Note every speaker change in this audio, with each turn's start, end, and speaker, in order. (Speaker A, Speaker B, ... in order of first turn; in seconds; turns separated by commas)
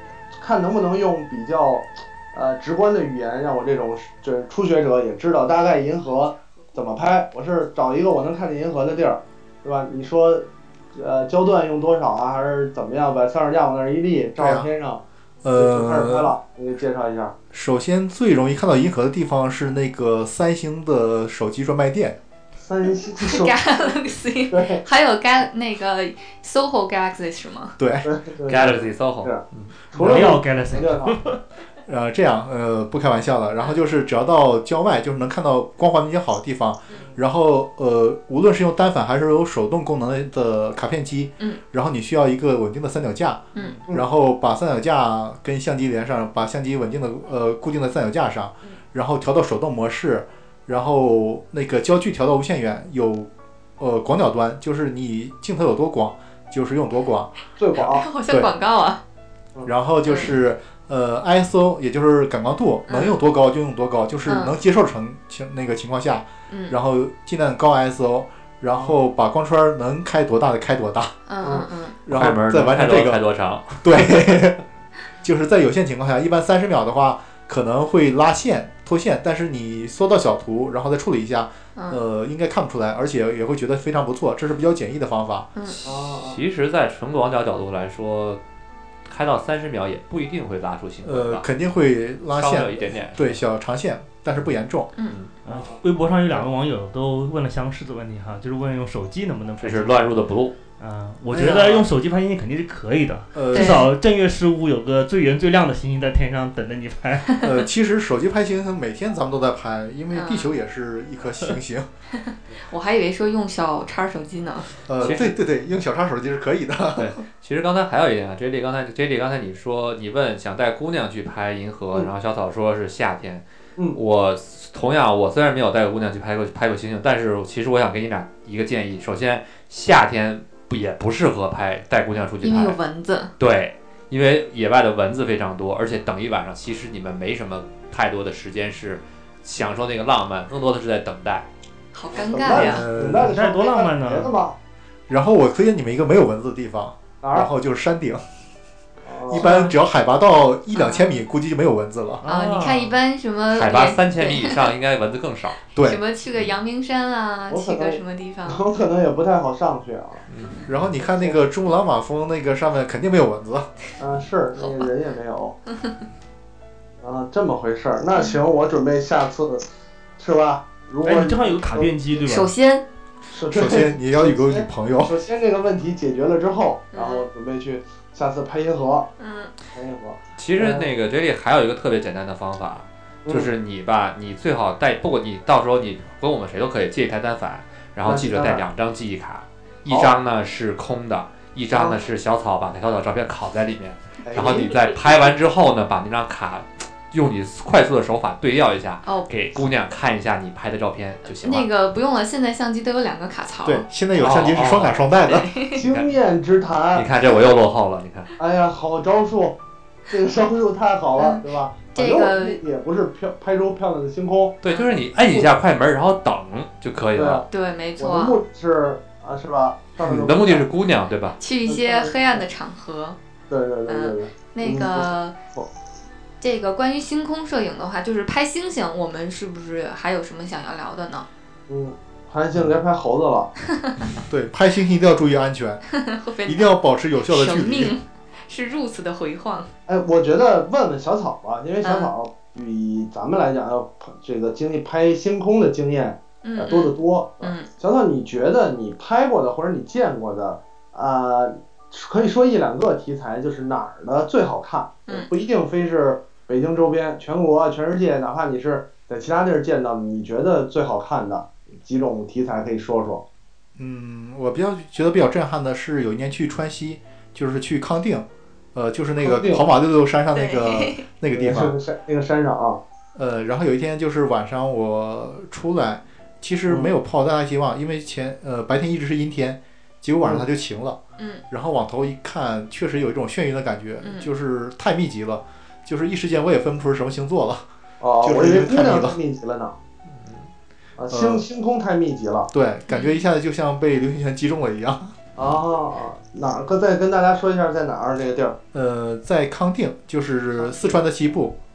Speaker A: 0.3-15.0, Speaker B: 14.4-14.7, Speaker B: 15.4-16.4, Speaker A: 15.5-17.3, Speaker B: 17.5-22.2, Speaker A: 22.6-23.8, Speaker C: 23.2-27.8, Speaker A: 24.5-24.8, Speaker B: 27.8-28.1, Speaker A: 28.0-29.4, Speaker D: 28.4-29.8, Speaker A: 29.9-31.2, Speaker E: 29.9-31.4, Speaker B: 30.0-30.4, Speaker B: 31.9-57.3, Speaker C: 43.5-43.8, Speaker E: 43.6-43.9, Speaker A: 57.6-58.1, Speaker C: 57.8-59.0, Speaker B: 59.7-71.2, Speaker C: 60.1-60.3, Speaker C: 62.9-63.2, Speaker C: 64.3-64.5, Speaker C: 66.5-66.8, Speaker C: 71.3-72.0, Speaker B: 72.0-73.2, Speaker D: 72.1-74.4, Speaker B: 73.8-74.6, Speaker B: 75.2-85.5, Speaker C: 81.8-82.0, Speaker D: 85.7-88.4, Speaker A: 85.8-86.4, Speaker D: 89.1-91.5, Speaker B: 91.0-94.9, Speaker D: 92.3-93.4, Speaker E: 95.5-100.2, Speaker A: 95.5-95.8, Speaker D: 99.6-100.6, Speaker E: 100.8-107.5, Speaker B: 101.3-101.9, Speaker B: 103.3-103.9, Speaker C: 103.5-103.9, Speaker B: 107.4-111.9, Speaker C: 110.1-110.5, Speaker C: 112.2-114.7, Speaker B: 114.9-117.2, Speaker D: 115.0-115.4, Speaker D: 117.0-132.8, Speaker C: 132.4-133.3, Speaker D: 133.4-141.5, Speaker C: 141.9-142.9, Speaker A: 142.3-144.6, Speaker B: 142.5-143.3, Speaker E: 143.1-144.3, Speaker B: 145.1-148.2, Speaker A: 147.2-147.5, Speaker A: 149.1-149.5, Speaker B: 149.3-152.2, Speaker E: 149.4-149.7, Speaker C: 150.8-151.2, Speaker E: 152.2-153.0, Speaker C: 152.3-154.6, Speaker D: 153.5-155.6, Speaker B: 155.8-156.0, Speaker C: 155.8-158.6, Speaker A: 157.5-160.3, Speaker D: 160.3-160.7, Speaker B: 160.7-163.7, Speaker A: 161.1-161.4, Speaker A: 164.0-165.6, Speaker A: 167.0-169.6, Speaker A: 170.2-172.2, Speaker E: 171.1-172.5, Speaker C: 172.3-172.8, Speaker A: 173.3-179.1, Speaker B: 173.5-175.2, Speaker C: 176.9-177.3, Speaker C: 179.2-179.5, Speaker A: 179.7-180.9, Speaker D: 180.4-201.7, Speaker A: 188.1-188.7, Speaker A: 189.9-190.1, Speaker A: 191.7-192.0, Speaker A: 194.2-194.8, Speaker C: 201.4-203.9, Speaker B: 203.7-205.5, Speaker D: 204.2-205.1, Speaker A: 204.2-204.7, Speaker C: 205.2-205.8, Speaker A: 205.8-207.4, Speaker D: 205.8-206.1, Speaker D: 206.9-208.3, Speaker A: 208.4-209.6, Speaker A: 210.1-214.6, Speaker C: 211.9-212.6, Speaker D: 214.6-217.4, Speaker A: 215.1-215.5, Speaker A: 217.2-217.5, Speaker C: 217.5-218.4, Speaker A: 218.0-220.7, Speaker D: 220.0-221.4, Speaker C: 221.4-223.2, Speaker A: 221.7-222.4, Speaker A: 223.5-225.7, Speaker C: 223.9-225.4, Speaker C: 226.4-231.3, Speaker A: 231.7-233.5, Speaker B: 234.3-235.8, Speaker C: 235.9-239.7, Speaker B: 236.4-237.9, Speaker A: 239.9-263.2, Speaker C: 241.8-242.1, Speaker C: 246.4-247.7, Speaker B: 263.8-271.8, Speaker A: 269.2-269.6, Speaker C: 270.3-271.1, Speaker A: 271.3-272.8, Speaker B: 273.1-281.0, Speaker A: 276.7-276.9, Speaker C: 281.2-281.4, Speaker B: 281.5-287.7, Speaker C: 284.0-284.3, Speaker A: 288.0-289.8, Speaker B: 288.2-289.2, Speaker D: 290.1-290.5, Speaker A: 291.0-292.5, Speaker B: 291.1-291.4, Speaker B: 292.5-295.1, Speaker C: 292.9-293.2, Speaker A: 295.4-298.6, Speaker B: 298.7-301.6